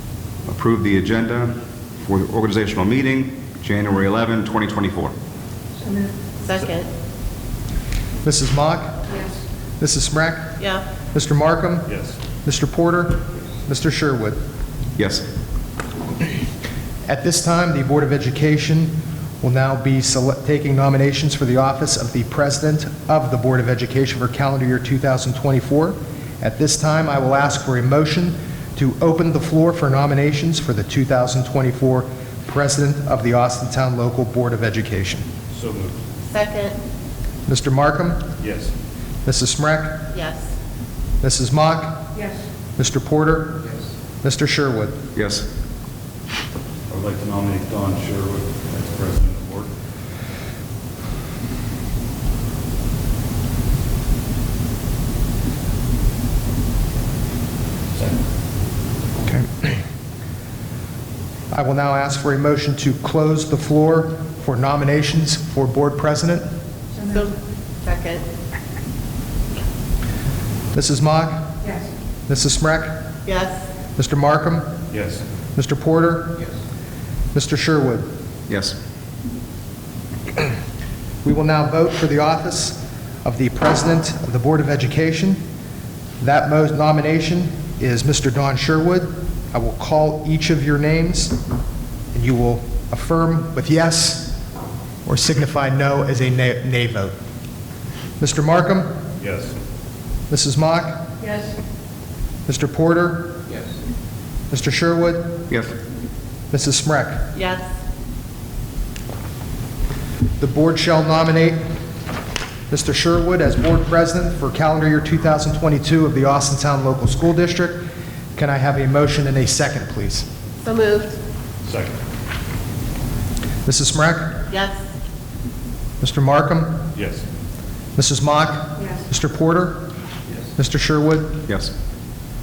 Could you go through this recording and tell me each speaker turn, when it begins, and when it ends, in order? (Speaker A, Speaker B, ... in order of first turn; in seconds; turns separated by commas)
Speaker A: 0.5-5.1, Speaker B: 6.4-6.9, Speaker C: 8.2-9.0, Speaker C: 9.8-10.6, Speaker B: 10.6-10.8, Speaker C: 11.1-11.9, Speaker D: 11.9-12.2, Speaker C: 12.4-14.4, Speaker A: 15.0-15.2, Speaker C: 17.1-35.3, Speaker D: 35.5-36.0, Speaker B: 36.3-36.8, Speaker C: 37.5-38.2, Speaker D: 38.4-38.7, Speaker C: 39.2-40.1, Speaker B: 40.1-40.5, Speaker C: 41.2-42.1, Speaker C: 42.8-43.6, Speaker C: 44.2-45.0, Speaker A: 45.1-45.5, Speaker D: 46.9-49.7, Speaker C: 59.3-59.7, Speaker C: 61.5-66.4, Speaker B: 67.0-68.2, Speaker C: 70.7-71.6, Speaker C: 72.3-73.0, Speaker B: 73.3-73.7, Speaker C: 74.0-74.7, Speaker D: 74.9-75.2, Speaker C: 75.5-76.5, Speaker C: 77.3-78.1, Speaker A: 78.5-78.8, Speaker C: 81.2-85.4, Speaker C: 86.2-91.4, Speaker C: 92.1-94.3, Speaker C: 95.1-97.1, Speaker C: 98.2-98.9, Speaker D: 99.2-99.5, Speaker C: 100.3-101.1, Speaker C: 102.5-103.4, Speaker C: 104.5-105.4, Speaker A: 105.5-105.8, Speaker C: 106.5-107.3, Speaker B: 107.3-107.7, Speaker C: 110.4-111.6, Speaker C: 112.7-117.8, Speaker C: 118.4-120.3, Speaker B: 120.6-121.2, Speaker D: 121.7-122.0, Speaker C: 123.7-124.4, Speaker B: 124.5-124.8, Speaker C: 126.0-126.8, Speaker D: 126.9-127.2, Speaker C: 128.0-129.8, Speaker C: 130.6-131.4, Speaker A: 131.5-131.7